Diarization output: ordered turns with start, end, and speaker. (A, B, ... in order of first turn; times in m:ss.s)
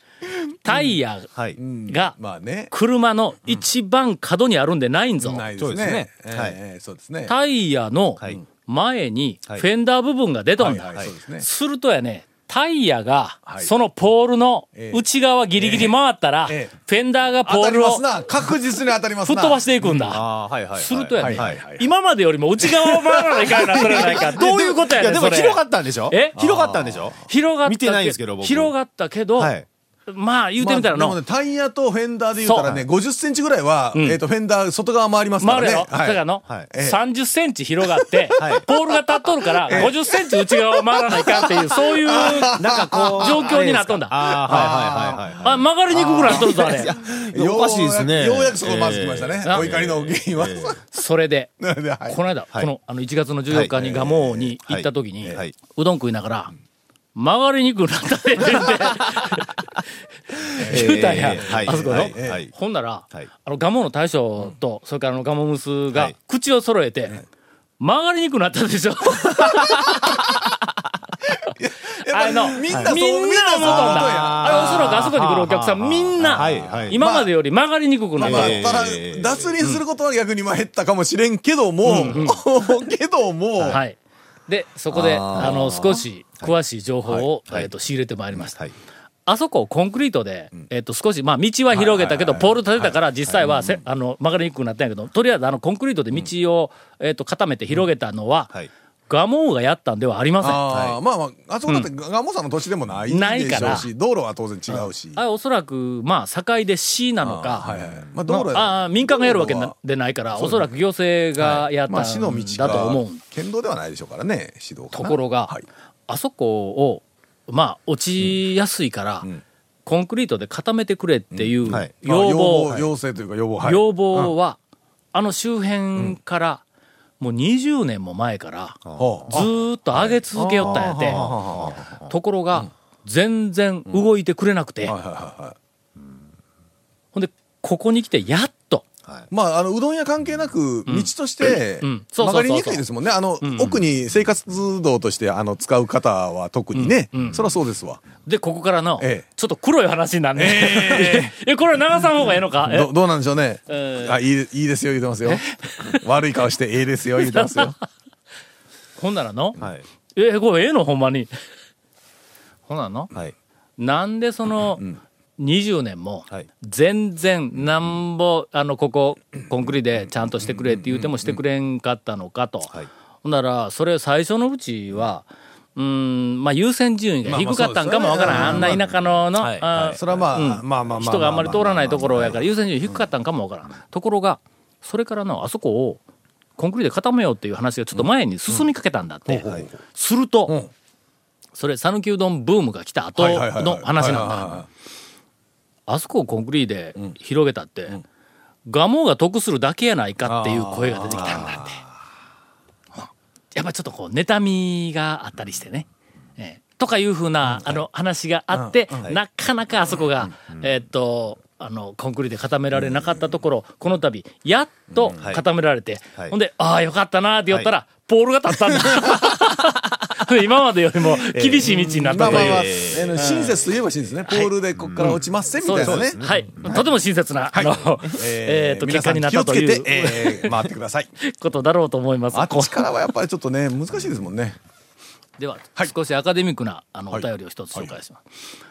0:00.6-0:01.3 A
0:01.6-0:02.7 B
0:01.9-0:02.2 A
0:02.7-0:05.4 A
0:05.2-0:07.3 B
0:05.6-0:06.6 C
0:07.3-0:10.9 A
0:10.6-0:11.5 B
0:11.4-0:18.0 A
0:13.5-0:13.7 B
0:14.8-0:15.0 B
0:15.6-0:15.9 B
0:16.5-0:16.7 B
0:17.4-0:20.2 B
0:19.3-0:20.2 A
0:20.1-0:21.6 C
0:20.8-0:26.4 A
0:21.2-0:21.9 B
0:22.6-0:24.3 B
0:24.0-0:28.7 C
0:26.4-0:27.2 B
0:27.3-0:29.5 A
0:29.4-0:29.7 C
0:30.1-0:31.2 A
0:30.6-0:36.2 B
0:32.4-0:32.7 A
0:35.4-0:44.7 A
0:36.7-0:37.0 B
0:38.0-0:38.6 B
0:38.4-0:38.7 C
0:39.6-0:43.5 B
0:42.6-0:50.8 C
0:44.2-0:45.4 B
0:45.4-0:46.9 A
0:46.0-0:50.8 B
0:49.4-0:49.8 A
0:50.9-0:51.5 A
0:51.6-0:52.2 B
0:52.1-0:56.5 A
0:53.8-0:54.5 B
0:54.6-0:55.5 C
0:57.2-0:59.5 A
1:00.5-1:07.2 A
1:00.6-1:02.4 B
1:00.6-1:02.5 C
1:07.8-1:10.0 A
1:11.5-1:15.2 B
1:12.1-1:18.7 A
1:13.6-1:17.0 C
1:16.2-1:17.3 B
1:18.2-1:23.8 B
1:18.2-1:19.5 C
1:21.9-1:22.4 A
1:21.9-1:22.2 C
1:23.7-1:24.0 A
1:24.5-1:28.6 A
1:24.9-1:25.7 C
1:25.0-1:26.0 B
1:27.1-1:27.7 C
1:28.4-1:28.7 C
1:29.3-1:38.5 A
1:31.7-1:33.0 B
1:39.1-1:40.6 A
1:40.4-1:45.2 B
1:40.7-1:41.0 C
1:43.1-1:43.9 A
1:44.7-1:47.7 A
1:47.2-1:49.7 B
1:48.3-1:53.2 A
1:50.4-1:50.8 B
1:51.4-1:55.6 B
1:54.9-1:55.5 A
1:56.1-1:59.3 A
1:59.9-2:02.8 A
2:01.3-2:04.3 B
2:01.7-2:01.9 C
2:03.6-2:04.6 A
2:05.1-2:06.6 A
2:07.2-2:11.2 A
2:08.8-2:09.2 C
2:09.0-2:09.5 B
2:10.0-2:12.1 C
2:10.4-2:11.8 B
2:12.1-2:15.0 A
2:14.8-2:15.6 B
2:17.1-2:18.8 A
2:19.3-2:28.0 B
2:20.9-2:22.8 A
2:23.4-2:23.8 A
2:26.8-2:27.5 A
2:28.2-2:32.9 A
2:30.4-2:31.3 B
2:32.2-2:37.8 B
2:33.7-2:34.2 A
2:35.3-2:36.0 A
2:37.3-2:37.8 A
2:39.0-2:39.6 A
2:39.6-2:39.8 C
2:40.2-2:41.3 A
2:42.7-2:43.1 A
2:43.8-2:44.8 A
2:45.4-2:52.7 A
2:50.4-2:51.4 B
2:53.2-3:06.0 A
2:57.3-2:58.8 B
2:58.3-2:59.0 C
2:59.4-3:02.4 B
2:59.8-3:00.2 C
3:06.6-3:10.6 A
3:08.0-3:08.6 B
3:09.3-3:09.7 B
3:11.6-3:14.6 A
3:13.2-3:14.7 B
3:15.9-3:18.0 A
3:18.7-3:21.8 A
3:20.2-3:21.8 B
3:23.5-3:25.9 A
3:26.4-3:43.6 A
3:27.5-3:27.8 B
3:28.5-3:29.2 B
3:35.2-3:35.4 C
3:41.3-3:43.4 C
3:41.6-3:46.3 B
3:44.3-3:50.6 A
3:44.8-3:45.2 C
3:45.8-3:46.8 C
3:47.5-3:51.1 B
3:51.2-3:52.9 A
3:52.3-3:54.6 B
3:55.4-3:58.2 A
3:57.1-3:58.0 B